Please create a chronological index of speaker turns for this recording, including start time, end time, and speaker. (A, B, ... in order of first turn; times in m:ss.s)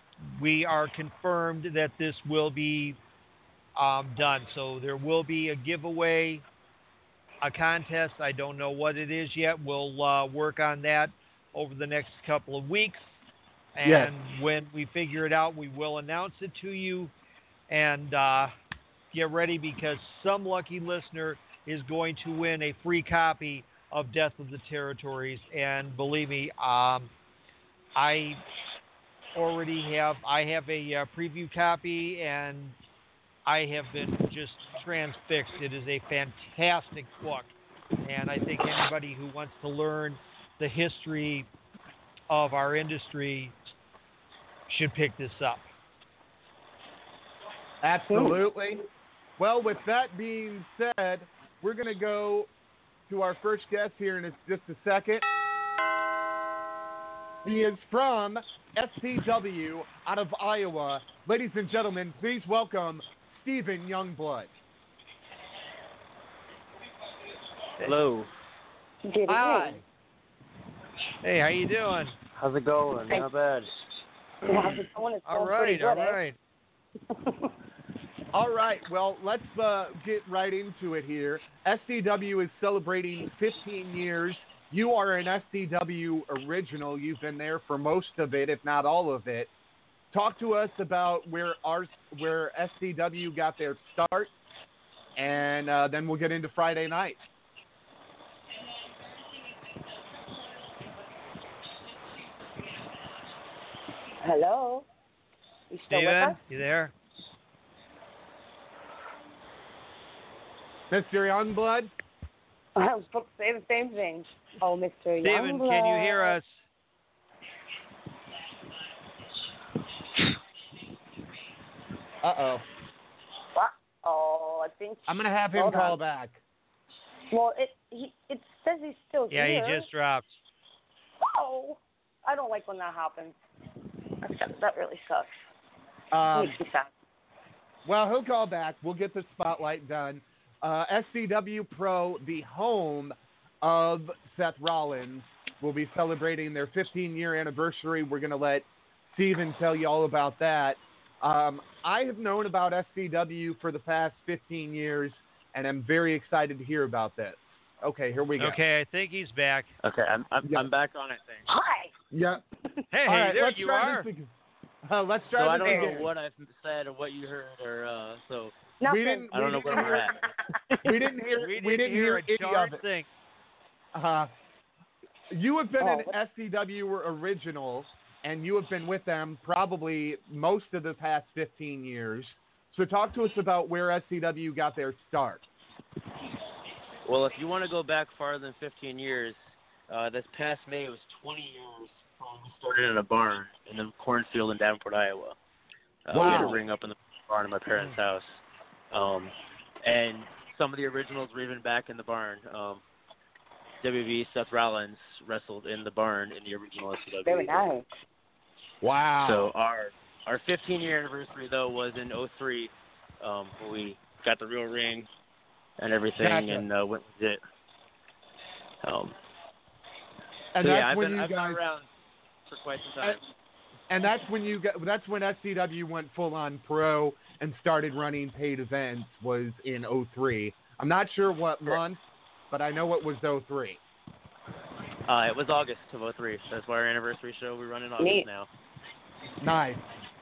0:00.2-0:03.0 A
0:03.8-0:06.4 A
0:07.4-0:13.2 A
0:13.8-0:17.1 A
0:13.8-0:14.1 B
0:17.7-0:18.5 A
0:19.1-0:27.1 A
0:28.0-0:28.4 A
0:29.4-0:32.8 A
0:33.5-0:37.5 A
0:38.0-0:41.5 A
0:42.3-0:43.5 A
0:44.7-0:45.6 A
0:47.8-0:48.8 B
0:48.1-0:48.4 C
0:49.4-0:52.5 B
0:53.1-0:55.3 B
0:57.4-1:04.5 B
1:07.8-1:08.3 D
1:09.0-1:09.8 C
1:09.3-1:09.8 B
1:11.2-1:12.2 A
1:12.5-1:13.3 D
1:14.4-1:16.2 C
1:15.3-1:16.4 A
1:17.1-1:17.5 C
1:18.3-1:29.5 B
1:30.1-1:34.3 B
1:35.2-1:37.2 B
1:44.2-1:44.9 C
1:45.7-1:46.4 C
1:45.9-1:46.9 A
1:50.9-1:51.9 B
1:52.8-1:56.4 C
1:55.2-1:56.6 A
2:02.2-2:02.6 B
2:03.6-2:06.0 C
2:05.1-2:06.4 B
2:07.3-2:09.9 C
2:09.3-2:10.4 A
2:11.2-2:13.4 C
2:14.2-2:15.3 C
2:16.1-2:16.6 B
2:16.3-2:16.9 C
2:17.9-2:38.6 B
2:38.4-2:39.7 A
2:39.8-2:41.5 D
2:41.5-2:41.9 C
2:42.1-2:42.4 B
2:42.9-2:44.1 A
2:43.1-2:44.3 B
2:44.8-2:46.1 B
2:45.3-2:48.6 D
2:45.7-2:46.0 C
2:48.8-2:50.2 C
2:48.8-2:50.2 B
2:49.3-2:50.2 D
2:50.8-2:52.8 B
2:51.4-2:53.1 A
2:53.9-2:54.3 B
2:55.3-3:05.4 B
2:55.8-2:56.1 C
3:07.1-3:15.4 D
3:16.1-3:22.8 D
3:16.1-3:16.6 B
3:23.8-3:27.7 D
3:27.2-3:27.9 C
3:28.8-3:29.5 B
3:29.2-3:35.1 D
3:35.8-3:37.4 D
3:36.2-3:36.6 B
3:38.8-3:39.2 D
3:40.6-3:41.6 B
3:40.6-3:41.9 D
3:42.5-3:43.2 D
3:43.9-3:52.0 B
3:52.5-3:53.8 B
3:55.1-3:58.5 D
3:58.0-3:58.3 C
3:59.4-3:59.9 B